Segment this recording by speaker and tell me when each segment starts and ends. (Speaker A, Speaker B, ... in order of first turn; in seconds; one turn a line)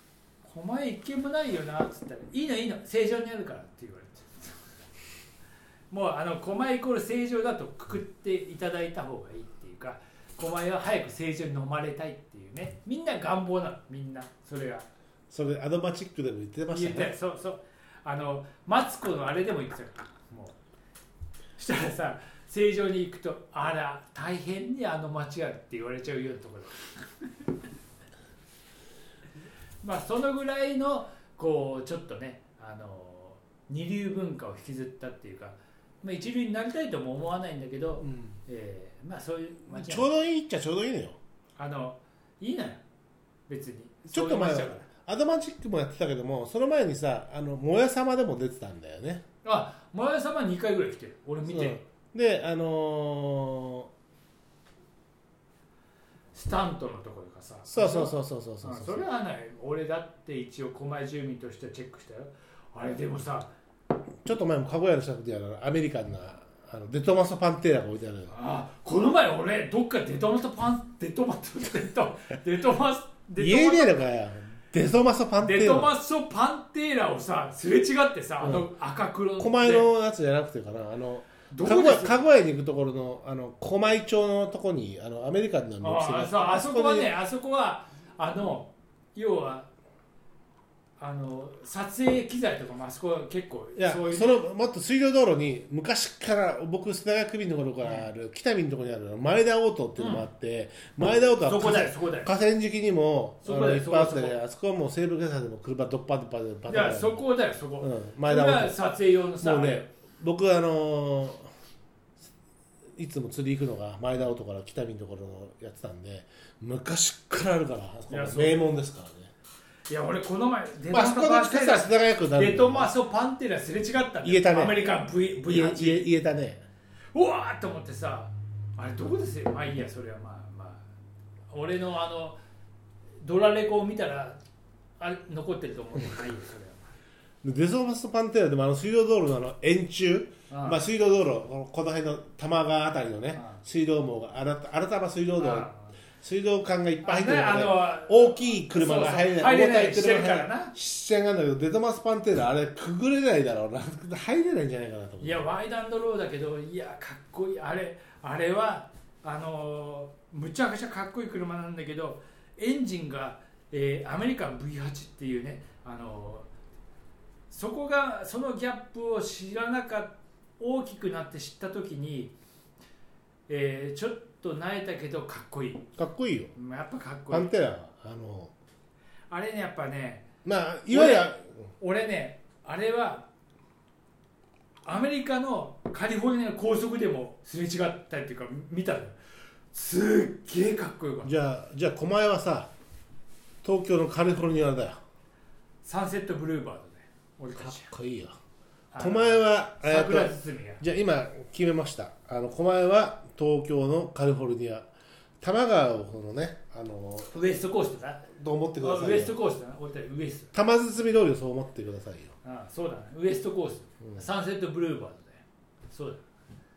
Speaker A: 0.4-4.8
Speaker A: 5.9-14.9
Speaker B: 15.3-17.1
Speaker A: 16.7-20.6
Speaker A: 21.6-27.5
Speaker A: 29.8-40.1
Speaker B: 38.0-38.4
Speaker B: 39.7-41.2
Speaker A: 41.6-42.8
Speaker A: 43.5-44.9
Speaker B: 44.1-49.2
Speaker A: 49.4-51.8
Speaker B: 51.4-53.9
Speaker A: 56.3-63.5
Speaker B: 57.7-59.1
Speaker B: 64.2-68.3
Speaker A: 68.3-74.1
Speaker B: 73.4-75.9
Speaker A: 75.4-79.9
Speaker B: 78.4-78.7
Speaker B: 79.4-87.1
Speaker A: 81.5-82.2
Speaker A: 85.8-89.7
Speaker A: 91.0-94.4
Speaker B: 93.8-107.2
Speaker A: 97.8-98.1
Speaker A: 100.0-100.3
Speaker A: 101.4-102.3
Speaker A: 103.4-104.4
Speaker A: 106.7-109.9
Speaker B: 107.8-108.8
Speaker B: 109.4-111.5
Speaker B: 113.0-119.3
Speaker A: 118.1-118.7
Speaker A: 119.9-126.1
Speaker B: 120.9-122.9
Speaker B: 124.2-124.8
Speaker B: 125.5-126.6
Speaker A: 127.1-130.8
Speaker A: 131.5-132.4
Speaker A: 133.2-134.4
Speaker A: 135.0-136.9
Speaker B: 137.4-145.7
Speaker A: 140.5-140.8
Speaker A: 143.3-143.6
Speaker A: 145.4-145.9
Speaker B: 146.2-155.4
Speaker A: 147.0-150.7
Speaker A: 155.2-166.5
Speaker A: 167.5-172.3
Speaker A: 173.5-175.8
Speaker B: 176.0-176.5
Speaker A: 176.6-177.5
Speaker B: 177.3-178.5
Speaker A: 179.3-180.2
Speaker B: 180.4-181.5
Speaker A: 180.9-183.2
Speaker A: 184.8-189.2
Speaker A: 189.7-191.3
Speaker B: 191.2-192.7
Speaker B: 193.6-195.0
Speaker A: 195.8-197.9
Speaker B: 197.6-198.3
Speaker A: 198.9-200.8
Speaker B: 199.0-204.9
Speaker B: 205.4-207.3
Speaker A: 207.3-208.3
Speaker B: 208.3-209.4
Speaker A: 208.8-210.5
Speaker B: 210.5-212.3
Speaker A: 212.4-216.2